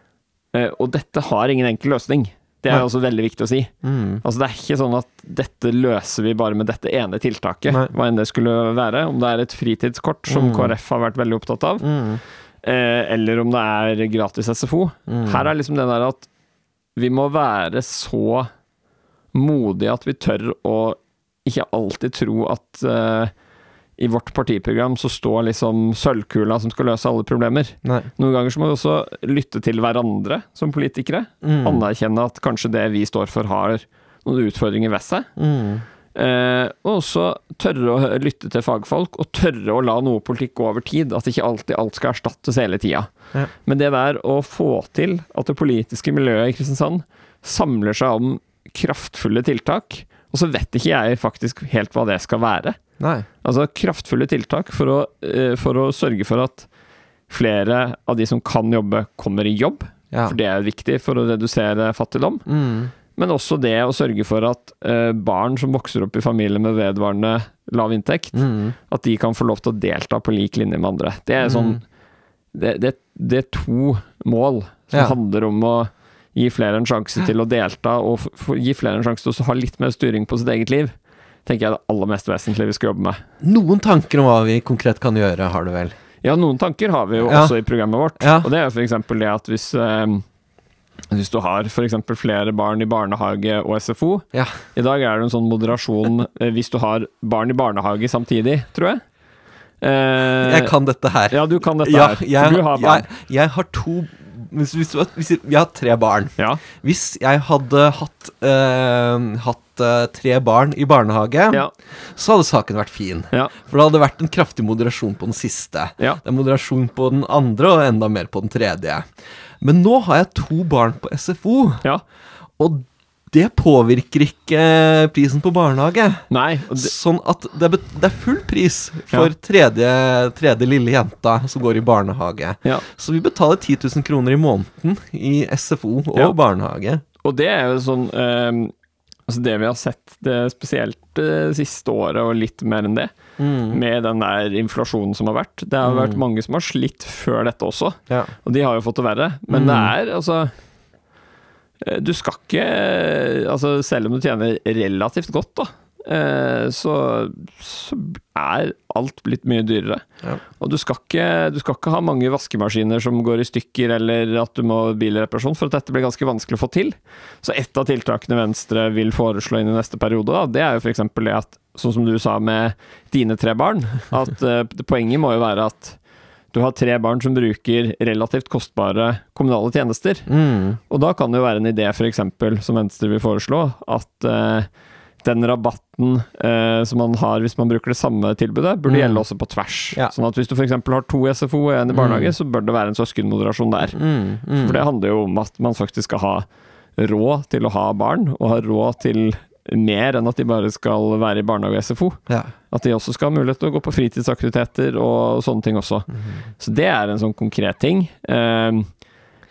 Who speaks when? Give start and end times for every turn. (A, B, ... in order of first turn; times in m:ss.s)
0:00.5-0:11.9 A
0:03.8-0:04.2 B
0:07.7-0:07.9 B
0:10.3-0:10.7 B
0:11.8-0:12.2 B
0:12.6-0:16.3 A
0:15.1-0:15.5 B
0:17.0-0:18.5 A
0:19.3-0:23.3 A
0:24.0-0:35.3 A
0:27.8-0:28.1 B
0:31.4-0:31.8 B
0:35.4-0:35.8 B
0:36.1-0:43.1 A
0:43.6-0:52.8 A
0:53.0-0:53.2 B
0:53.4-0:56.7 A
0:57.3-1:02.4 A
1:00.1-1:00.4 B
1:02.5-1:02.9 B
1:03.1-1:11.8 A
1:08.3-1:08.7 B
1:11.4-1:11.8 B
1:12.5-1:20.9 A
1:21.4-1:23.2 A
1:23.4-1:25.9 B
1:26.2-1:30.2 A
1:27.2-1:27.5 B
1:28.2-1:28.5 B
1:31.1-1:39.0 A
1:34.3-1:34.6 B
1:39.8-1:40.7 A
1:40.4-2:01.8 B
1:41.3-1:43.1 A
2:02.6-2:17.0 B
2:06.3-2:06.9 A
2:17.2-2:18.7 A
2:19.3-2:23.1 A
2:23.4-2:23.8 B
2:23.7-2:30.5 A
2:25.8-2:26.2 B
2:29.5-2:29.9 B
2:31.8-2:40.0 A
2:40.6-2:56.0 A
2:56.5-3:00.3 A
3:00.3-3:00.8 B
3:00.9-3:04.7 A
3:05.2-3:14.0 A
3:08.9-3:09.2 B
3:11.9-3:12.3 B
3:13.9-3:14.8 B
3:14.6-3:26.1 A
3:26.6-3:28.9 A